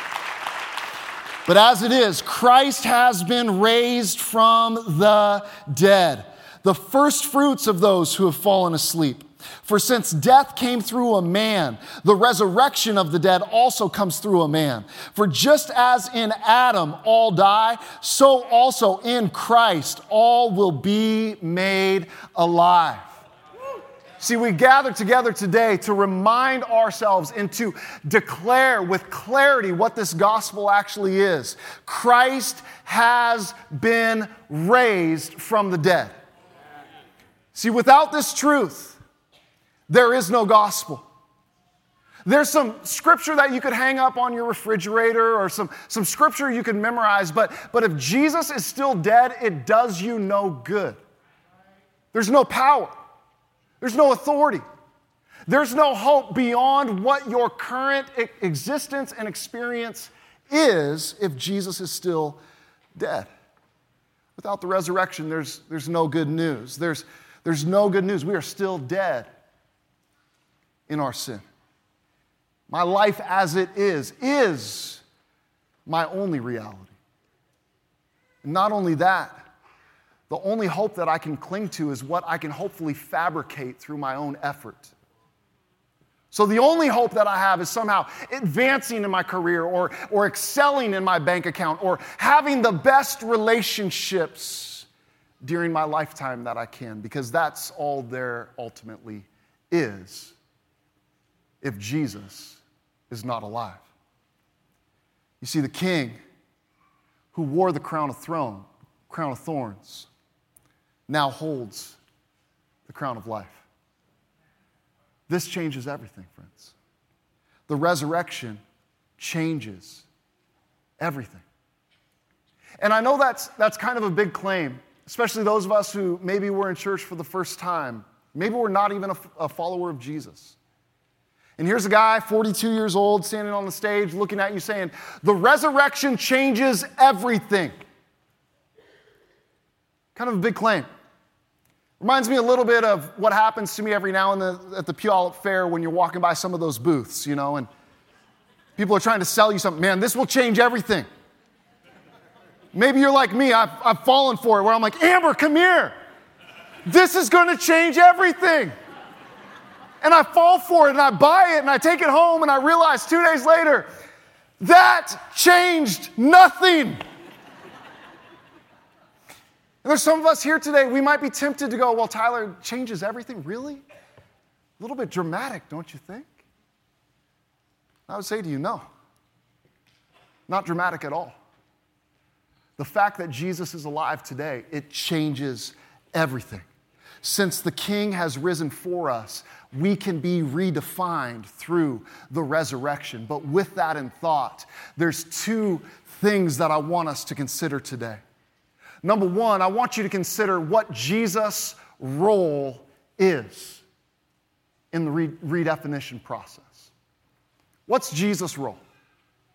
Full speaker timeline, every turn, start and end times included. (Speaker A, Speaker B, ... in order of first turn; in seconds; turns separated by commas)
Speaker A: 1.5-23.2, Speaker A: 24.2-36.2, Speaker A: 37.5-39.0, Speaker A: 39.9-41.0, Speaker A: 42.3-51.0, Speaker A: 52.1-53.0, Speaker A: 53.8-54.6, Speaker A: 55.5-62.4, Speaker A: 63.0-63.3, Speaker A: 64.4-69.3, Speaker A: 70.9-71.4, Speaker A: 72.7-75.0, Speaker A: 75.9-77.0, Speaker A: 78.4-79.4, Speaker A: 80.3-84.9, Speaker A: 86.3-94.9, Speaker A: 95.4-100.3, Speaker A: 101.6-103.9, Speaker A: 105.4-106.2, Speaker A: 107.3-110.1, Speaker A: 111.1-112.0, Speaker A: 112.9-113.6, Speaker A: 115.3-116.8, Speaker A: 117.7-118.6, Speaker A: 119.2-120.0, Speaker A: 121.0-121.4, Speaker A: 122.8-130.6, Speaker A: 131.6-137.8, Speaker A: 140.2-140.9, Speaker A: 142.0-147.7, Speaker A: 148.8-151.1, Speaker A: 152.7-155.9, Speaker A: 156.8-158.7, Speaker A: 160.0-163.9, Speaker A: 164.6-167.0, Speaker A: 169.8-173.8, Speaker A: 174.8-176.3, Speaker A: 178.1-178.9, Speaker A: 180.5-181.4, Speaker A: 182.8-186.7, Speaker A: 187.2-198.2, Speaker A: 199.0-203.8, Speaker A: 204.9-206.9, Speaker A: 207.9-208.8